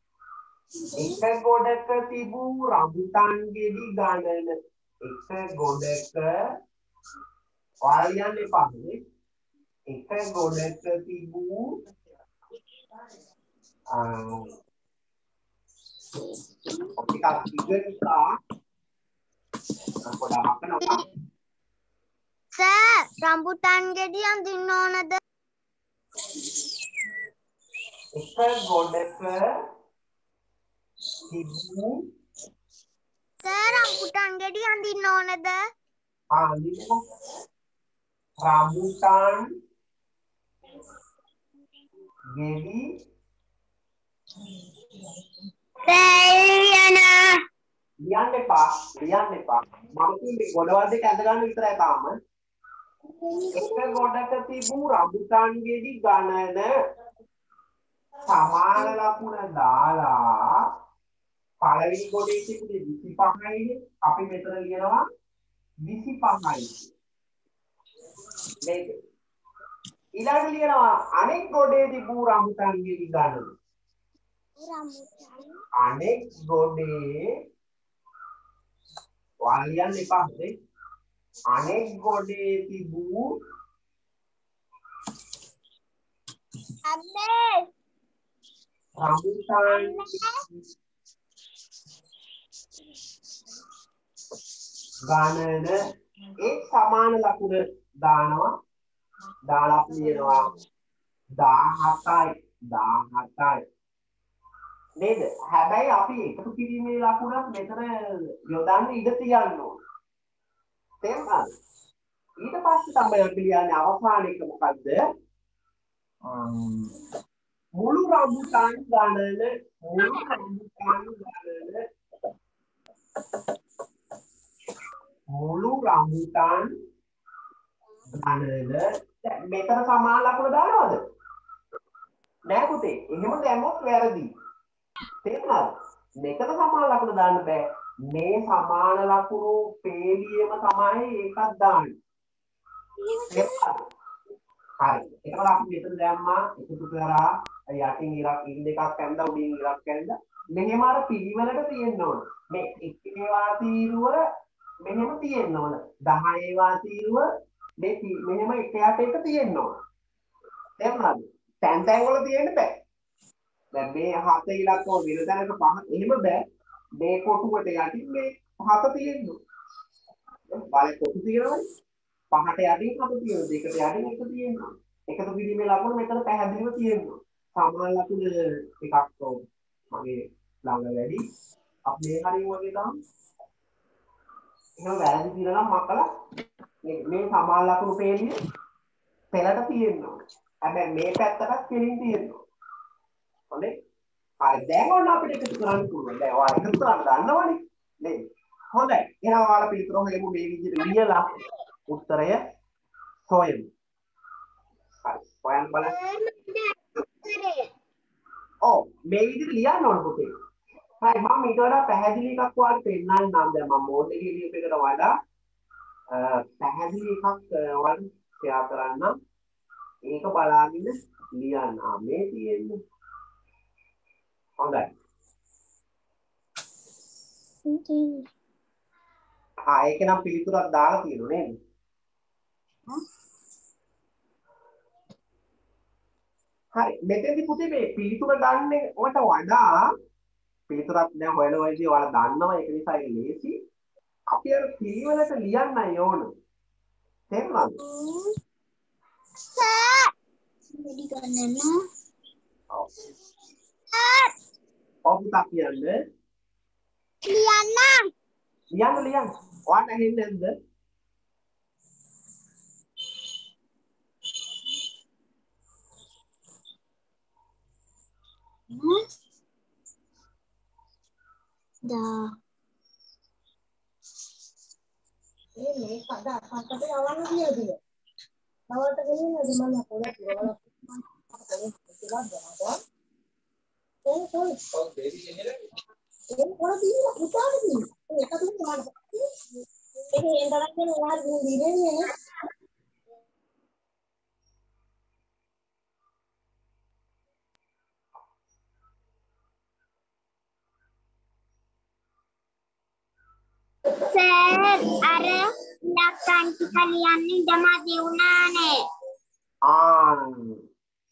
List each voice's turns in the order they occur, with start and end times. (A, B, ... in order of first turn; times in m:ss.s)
0:00.9-0:06.3 A
0:07.8-0:09.0 A
0:09.9-0:11.7 A
0:13.9-0:14.5 A
0:17.0-0:18.3 A
0:20.0-0:21.0 A
0:22.6-0:25.2 B
0:28.2-0:29.5 A
0:31.3-0:32.0 A
0:33.4-0:35.6 B
0:36.3-0:37.0 A
0:38.4-0:39.5 A
0:42.3-0:42.9 A
0:45.8-0:47.2 B
0:48.0-0:52.1 A
0:53.2-0:53.9 B
0:53.5-0:56.7 A
0:58.3-1:00.4 A
1:01.6-1:05.0 A
1:05.8-1:06.9 A
1:08.6-1:09.0 A
1:10.2-1:13.5 A
1:14.6-1:15.6 B
1:15.8-1:17.1 A
1:19.4-1:20.5 A
1:21.5-1:23.3 A
1:26.9-1:27.7 B
1:29.0-1:30.2 A
1:29.7-1:30.4 B
1:35.1-1:35.8 A
1:36.4-1:38.5 A
1:39.5-1:40.5 A
1:41.3-1:43.6 A
1:45.0-1:47.9 A
1:48.5-1:49.7 A
1:51.0-1:51.5 A
1:52.4-1:55.0 A
1:56.3-1:56.9 A
1:57.8-2:01.8 A
2:05.3-2:06.7 A
2:08.1-2:11.0 A
2:12.5-2:14.3 A
2:15.2-2:21.9 A
2:23.0-2:23.5 B
2:23.3-2:23.8 A
2:24.8-2:34.2 A
2:34.8-2:37.2 A
2:37.8-2:39.7 A
2:40.8-2:42.7 A
2:43.7-2:46.4 A
2:47.0-2:49.4 A
2:50.5-2:51.6 A
2:52.3-3:01.2 A
3:01.9-3:02.9 A
3:04.8-3:06.1 A
3:06.8-3:08.3 A
3:09.3-3:12.4 A
3:14.4-3:18.2 A
3:18.7-3:21.3 A
3:21.9-3:22.4 A
3:23.2-3:23.6 A
3:25.0-3:25.9 A
3:25.8-3:27.7 B
3:28.6-3:30.3 A
3:31.0-3:35.1 A
3:36.1-3:39.1 A
3:40.1-3:42.8 A
3:44.6-3:44.9 A
3:47.6-3:48.2 B
3:49.7-3:51.5 A
3:56.8-3:59.7 A
4:00.7-4:03.5 A
4:04.3-4:06.3 A
4:07.3-4:07.8 A
4:07.8-4:08.3 B
4:09.5-4:10.1 B
4:10.8-4:11.7 B
4:12.7-4:13.1 A
4:13.9-4:14.3 B
4:15.1-4:16.0 A
4:17.2-4:18.1 B
4:18.8-4:20.5 A
4:31.9-4:32.2 B
4:35.6-4:37.8 C
4:38.7-4:42.8 C
4:44.0-4:44.6 C
4:46.3-4:49.2 C
4:50.1-4:52.1 C
5:04.0-5:08.8 B
5:09.6-5:10.6 A